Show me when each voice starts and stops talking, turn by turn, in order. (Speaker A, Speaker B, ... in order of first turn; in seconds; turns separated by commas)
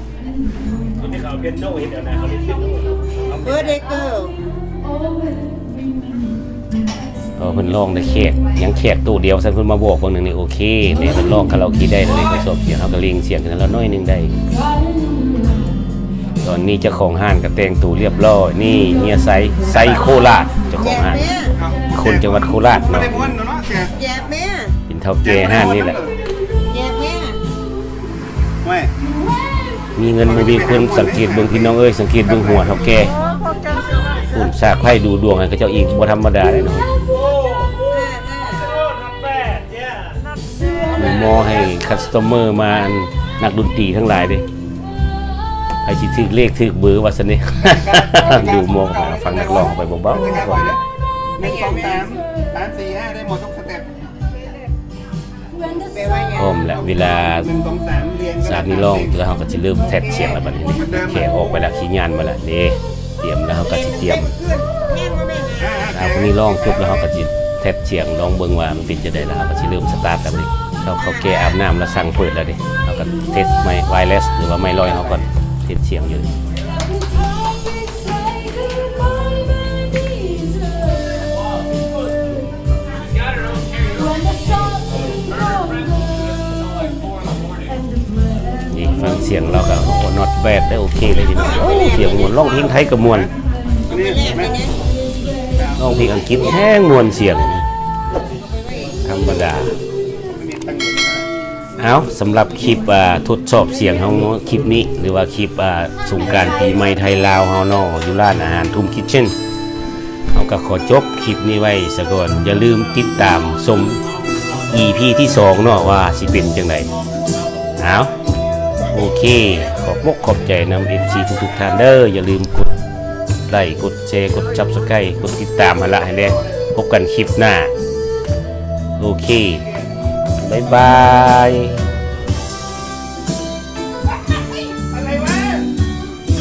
Speaker A: 3.3-4.4, Speaker B: 7.4-14.3, Speaker B: 16.4-21.3, Speaker A: 20.8-21.6, Speaker B: 21.9-23.4, Speaker C: 23.4-23.9, Speaker A: 23.8-24.8, Speaker B: 24.9-26.0, Speaker A: 26.6-27.4, Speaker B: 30.0-33.1, Speaker A: 33.7-34.0, Speaker B: 34.3-36.9, Speaker A: 37.8-38.8, Speaker B: 40.9-44.5, Speaker B: 45.8-50.8, Speaker C: 51.4-53.9, Speaker A: 51.4-52.0, Speaker A: 55.9-56.7, Speaker B: 56.3-57.5, Speaker C: 57.5-58.4, Speaker B: 58.4-64.3, Speaker A: 63.7-65.9, Speaker B: 65.9-76.3, Speaker A: 71.1-71.5, Speaker B: 88.7-93.3, Speaker A: 91.3-92.6, Speaker A: 93.9-94.8, Speaker B: 95.7-97.6, Speaker A: 98.4-99.1, Speaker B: 99.0-99.8, Speaker C: 100.4-101.2, Speaker B: 101.8-109.3, Speaker B: 110.3-114.0, Speaker B: 114.7-116.9, Speaker B: 117.8-118.1, Speaker B: 118.9-122.7, Speaker B: 123.5-127.7, Speaker B: 129.0-129.7, Speaker B: 130.4-131.8, Speaker C: 134.9-135.6